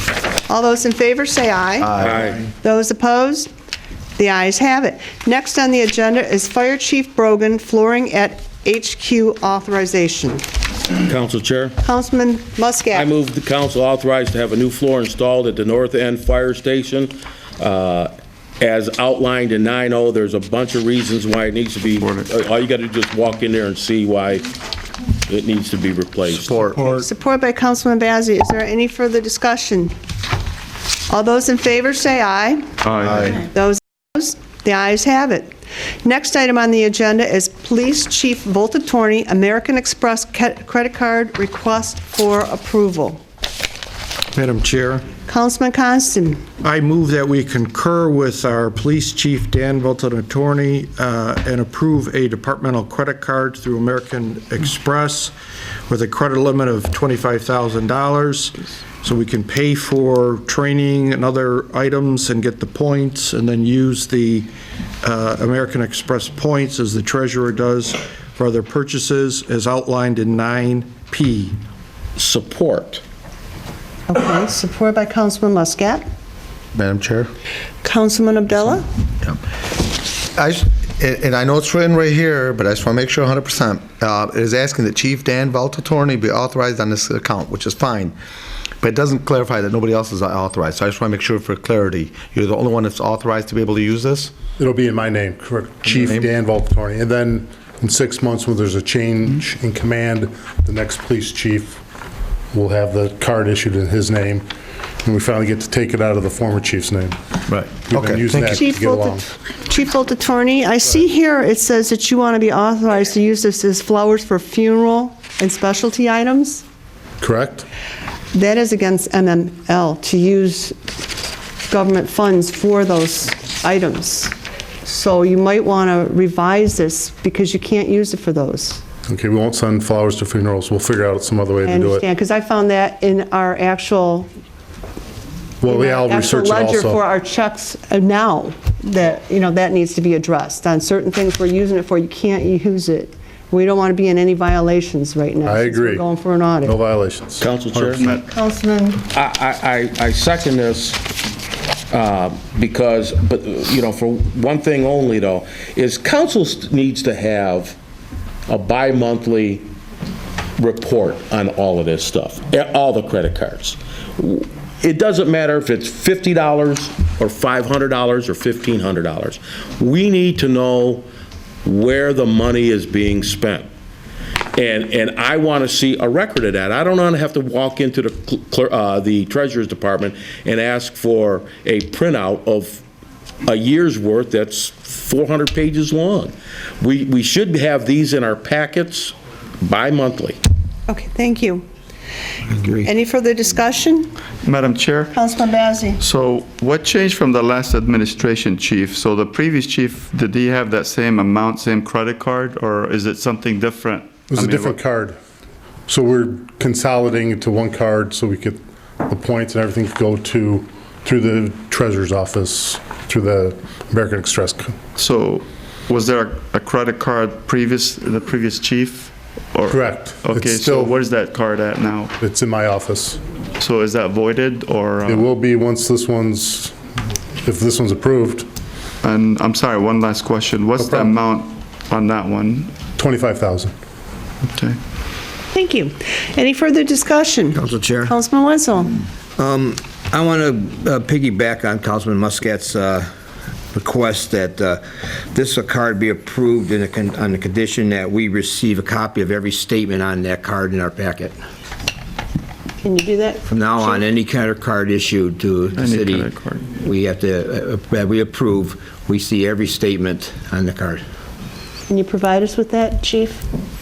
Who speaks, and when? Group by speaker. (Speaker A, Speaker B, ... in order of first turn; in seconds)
Speaker A: 0.5-2.0, 2.6-3.5, 4.2-10.4, 11.8-13.1, 26.8-29.9, 31.1-32.7, 33.3-43.2, 45.3-46.4, 74.1-76.1, 77.8-78.8, 108.5-116.7, 118.3-120.8, 121.7-128.8, 131.7-134.3, 135.6-146.8, 148.3-149.0, 190.9-191.7, 192.8-194.1, 195.1-196.0, 235.5-239.0, 252.8-254.0, 261.9-263.4
Speaker B: 2.0-2.5, 11.1-11.8, 12.9-24.5, 25.3-26.7, 72.2-73.0, 147.4-148.1, 149.1-151.0, 151.9-157.8, 158.5-159.7, 160.6-171.1, 171.7-173.7, 174.6-182.8, 183.4-190.4
Speaker C: 22.0-22.3, 194.4-195.1, 196.0-204.8, 215.0-222.1, 223.6-225.3, 229.0-232.7, 234.5-234.8, 255.8-256.7
Speaker D: 26.3-26.7, 32.9-33.4, 76.8-77.3, 79.2-88.2, 88.8-94.4, 95.8-96.3, 107.5-108.5
Speaker E: 26.8-27.1, 44.3-45.1, 46.6-55.3, 55.9-64.5, 65.0-71.5
Speaker F: 94.6-101.8, 102.5-104.5, 105.0-107.2, 107.8-109.2, 117.2-117.7, 129.1-132.0, 135.6-137.0, 145.4-146.0, 146.6-148.1, 204.3-205.2, 205.9-214.8, 219.7-221.0, 222.2-223.2, 225.1-226.8, 227.4-228.5, 230.8-231.1, 233.0-233.7
Speaker G: 192.5-192.9, 237.6-238.1, 239.4-243.1, 243.7-251.4, 253.5-261.0